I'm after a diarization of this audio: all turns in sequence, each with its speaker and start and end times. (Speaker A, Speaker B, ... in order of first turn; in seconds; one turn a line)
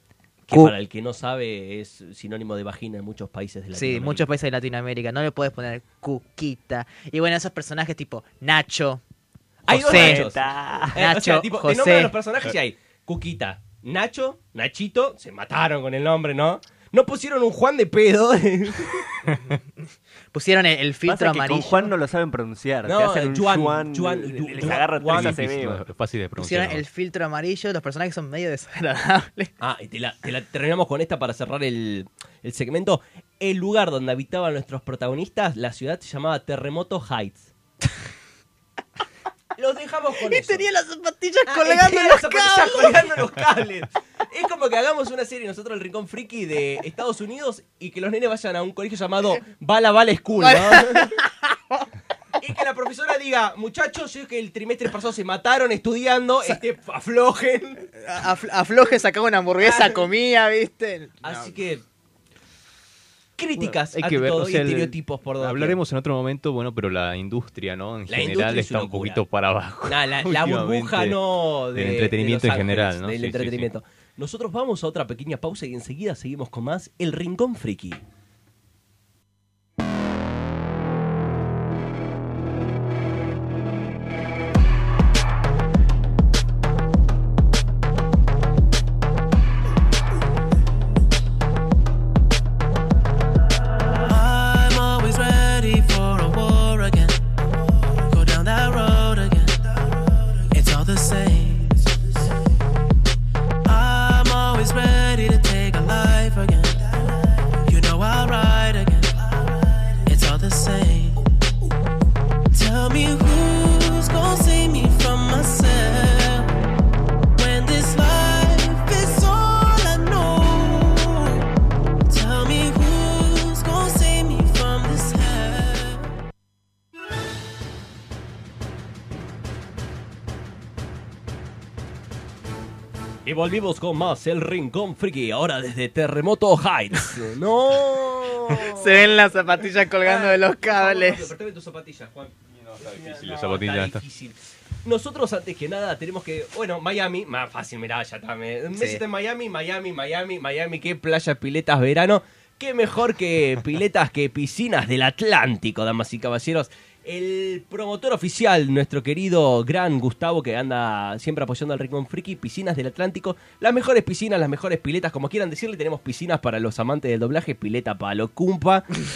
Speaker A: 0.5-4.2
Speaker B: 3.7-9.0
Speaker A: 9.7-10.4
Speaker B: 9.7-10.2
Speaker C: 9.8-11.0
Speaker A: 10.9-19.1
Speaker B: 11.0-12.1
Speaker B: 20.3-21.9
Speaker C: 21.1-25.8
Speaker A: 22.8-25.4
Speaker D: 24.6-26.8
Speaker B: 26.4-29.5
Speaker A: 29.6-37.5
Speaker A: 39.6-40.6
Speaker B: 40.3-43.2
Speaker A: 41.5-51.1
Speaker B: 50.4-51.3
Speaker A: 52.4-57.8
Speaker B: 58.0-61.5
Speaker A: 59.6-60.0
Speaker A: 61.2-61.8
Speaker A: 63.4-65.8
Speaker D: 63.6-71.2
Speaker A: 68.1-69.2
Speaker A: 69.9-78.0
Speaker D: 71.7-73.7
Speaker E: 94.0-97.2
Speaker E: 98.1-99.9
Speaker E: 100.5-102.2
Speaker E: 103.6-109.3
Speaker E: 110.0-111.2
Speaker E: 112.5-116.5
Speaker E: 117.3-121.4
Speaker E: 122.1-126.1
Speaker A: 133.2-139.2
Speaker B: 138.5-141.3
Speaker A: 140.0-168.9
Speaker D: 142.6-144.0
Speaker B: 148.7-149.0